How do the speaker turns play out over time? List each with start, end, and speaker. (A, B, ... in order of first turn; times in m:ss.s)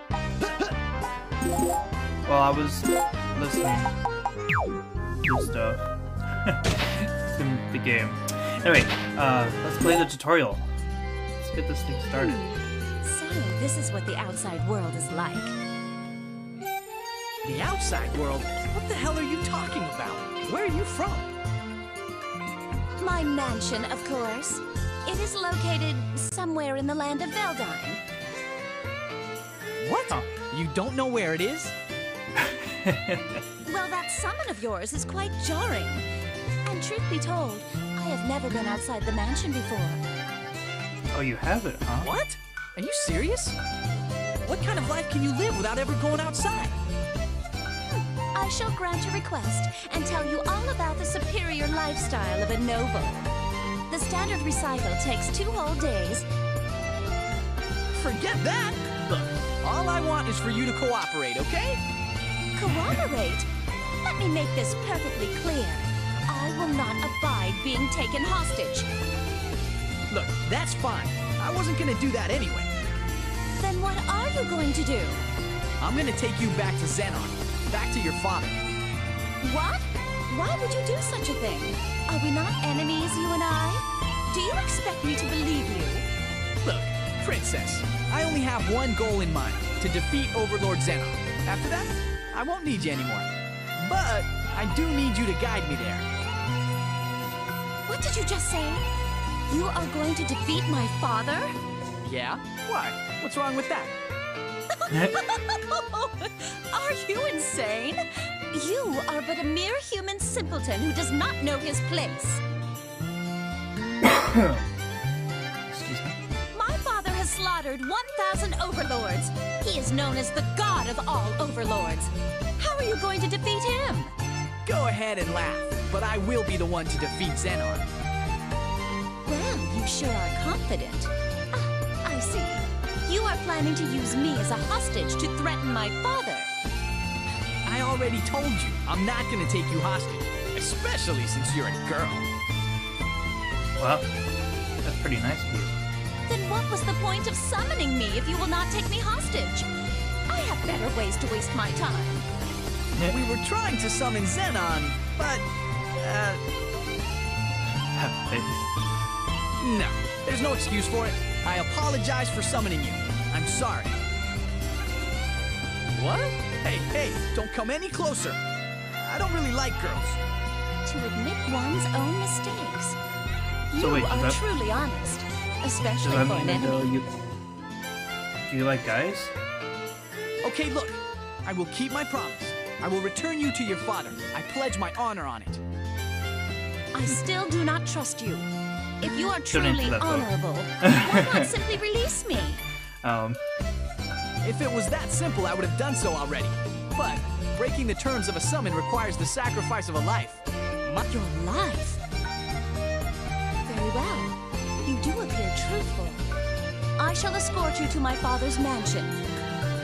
0:02.2-0:03.9 A
0:05.2-0:05.8 A
0:06.4-0:10.7 A
0:11.4-0:12.4 A
0:12.2-0:15.6 B
0:17.4-0:21.3 C
0:23.0-0:28.0 B
0:29.8-0:31.7 C
0:32.4-0:33.4 A
0:33.6-0:36.0 B
0:36.6-0:40.0 B
0:41.1-0:42.1 A
0:42.0-0:43.6 C
0:44.4-0:46.8 C
0:47.9-0:53.3 B
0:53.9-0:56.2 B
0:57.9-0:59.0 C
0:59.6-1:01.8 C
1:02.6-1:03.5 B
1:04.0-1:08.9 B
1:10.1-1:12.7 C
1:13.6-1:15.2 B
1:15.8-1:18.6 C
1:19.4-1:26.0 B
1:26.6-1:36.1 C
1:37.9-1:38.8 B
1:39.5-1:41.5 B
1:42.0-1:43.9 C
1:44.7-1:48.0 B
1:44.9-1:45.2 A
1:48.5-1:52.4 B
1:54.0-1:54.6 A
1:55.7-1:56.2 A
1:56.5-2:04.1 B
2:04.6-2:07.9 C
2:09.2-2:16.5 B
2:17.6-2:22.3 C
2:23.8-2:24.1 A
2:24.8-2:25.7 A
2:26.3-2:29.7 B
2:30.3-2:32.2 B
2:32.9-2:33.2 A
2:33.1-2:36.4 C
2:37.9-2:38.8 A
2:39.6-2:44.0 C
2:45.9-2:50.2 C
2:50.8-2:53.0 B
2:53.7-2:56.9 B
2:53.8-2:54.4 A
2:56.0-2:57.2 A
2:58.4-2:59.3 A
3:00.4-3:05.6 C
3:06.9-3:08.5 B
3:09.0-3:12.6 B
3:09.5-3:11.5 A
3:13.0-3:13.4 A
3:14.4-3:20.4 C
3:20.9-3:22.0 B
3:23.6-3:26.3 B
3:27.0-3:29.2 B